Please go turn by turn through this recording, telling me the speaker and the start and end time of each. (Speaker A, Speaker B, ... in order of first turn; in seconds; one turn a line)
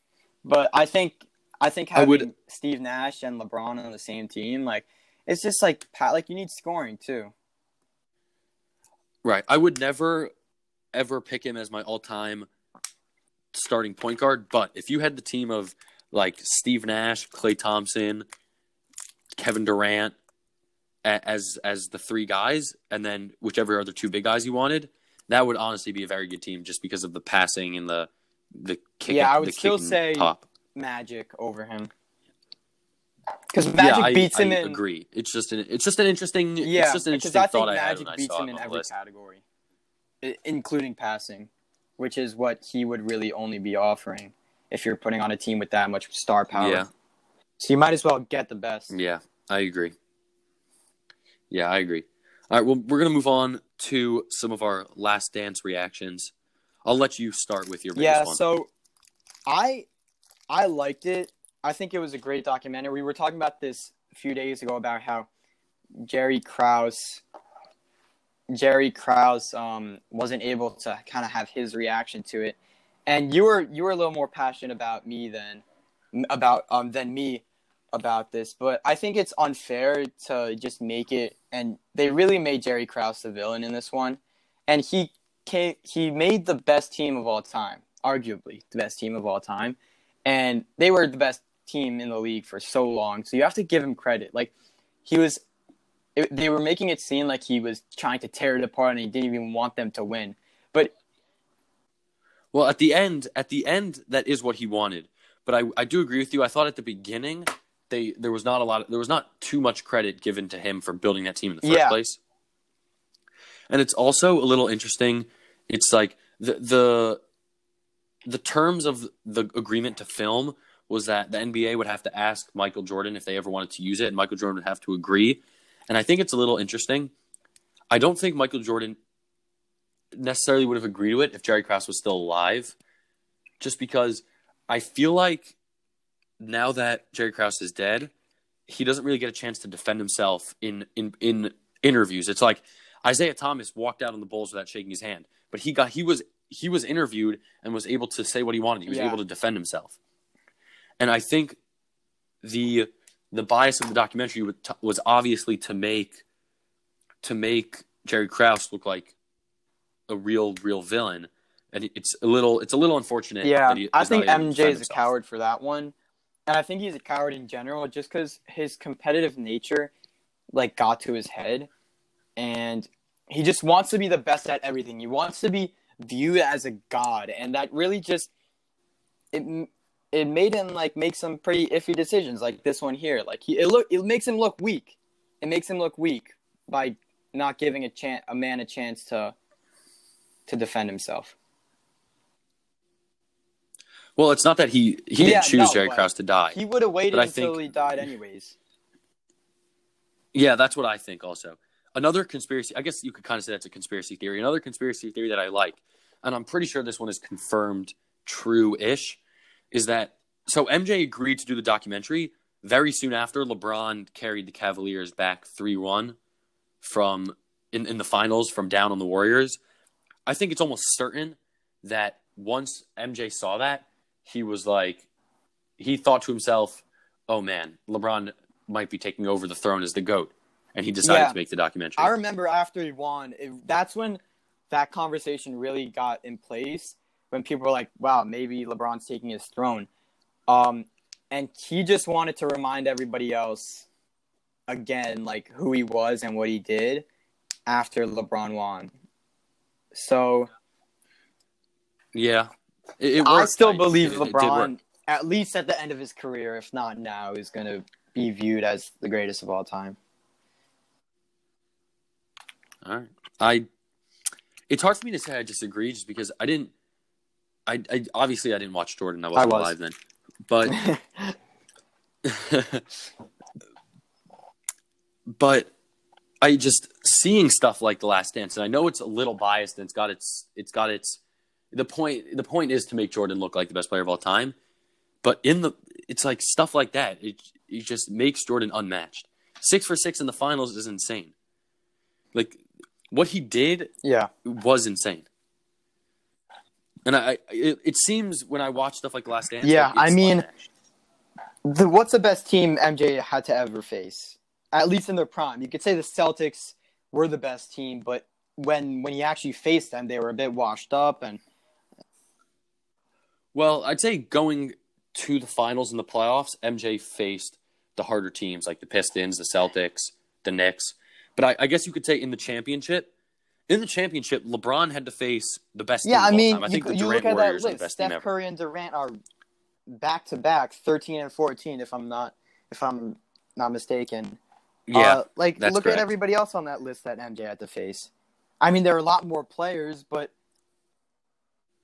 Speaker A: 0.4-7.3
Speaker B: 1.9-2.3
Speaker B: 9.2-10.3
Speaker B: 10.9-12.5
Speaker B: 13.5-18.2
Speaker B: 19.4-20.1
Speaker B: 21.0-30.4
Speaker A: 29.1-31.9
Speaker A: 33.5-34.8
Speaker B: 33.8-38.9
Speaker A: 36.6-39.4
Speaker A: 40.2-46.9
Speaker B: 46.5-46.9
Speaker A: 47.6-48.9
Speaker B: 48.9-49.9
Speaker B: 51.5-56.3
Speaker B: 56.8-58.4
Speaker A: 58.0-58.7
Speaker A: 59.5-59.9
Speaker A: 60.5-65.3
Speaker A: 66.0-67.2
Speaker A: 68.5-94.5
Speaker A: 95.0-95.4
Speaker A: 96.2-100.9
Speaker B: 102.5-112.2
Speaker A: 111.6-112.0
Speaker B: 113.7-117.2
Speaker B: 118.2-127.1
Speaker B: 127.9-129.0
Speaker B: 130.1-132.7
Speaker B: 133.6-135.5
Speaker B: 136.4-138.1
Speaker B: 138.7-149.9
Speaker A: 148.9-149.2
Speaker B: 151.0-151.6
Speaker B: 152.4-156.2
Speaker B: 157.2-159.1
Speaker B: 160.1-165.1
Speaker A: 163.4-165.9
Speaker A: 166.5-169.9
Speaker A: 170.5-171.7
Speaker A: 172.4-178.3
Speaker A: 179.3-189.3
Speaker A: 190.5-191.3
Speaker B: 194.2-196.6
Speaker A: 195.2-198.6
Speaker B: 197.1-197.6
Speaker B: 200.3-209.2
Speaker B: 209.7-216.2
Speaker B: 216.8-219.6
Speaker B: 220.2-225.0
Speaker B: 225.8-232.2
Speaker A: 231.0-231.3
Speaker A: 232.0-239.9
Speaker A: 240.5-243.8
Speaker A: 244.7-247.0
Speaker A: 247.7-248.9
Speaker A: 249.9-250.5
Speaker B: 252.1-254.7
Speaker A: 253.2-260.0
Speaker B: 262.8-263.7
Speaker B: 264.7-266.7
Speaker B: 267.7-269.9
Speaker A: 269.3-269.7
Speaker B: 270.4-270.8
Speaker A: 270.6-271.3
Speaker B: 272.2-272.9
Speaker B: 275.3-275.7
Speaker B: 276.4-281.2
Speaker B: 281.7-284.5
Speaker B: 285.2-291.3
Speaker B: 292.3-293.9
Speaker A: 294.0-294.3
Speaker B: 294.4-295.2
Speaker B: 297.0-300.7
Speaker A: 299.6-300.4
Speaker A: 301.6-311.4
Speaker B: 313.5-323.1
Speaker B: 323.7-328.2
Speaker A: 326.0-329.2
Speaker A: 329.9-334.4
Speaker B: 334.9-336.1
Speaker A: 334.9-338.1
Speaker A: 338.6-340.3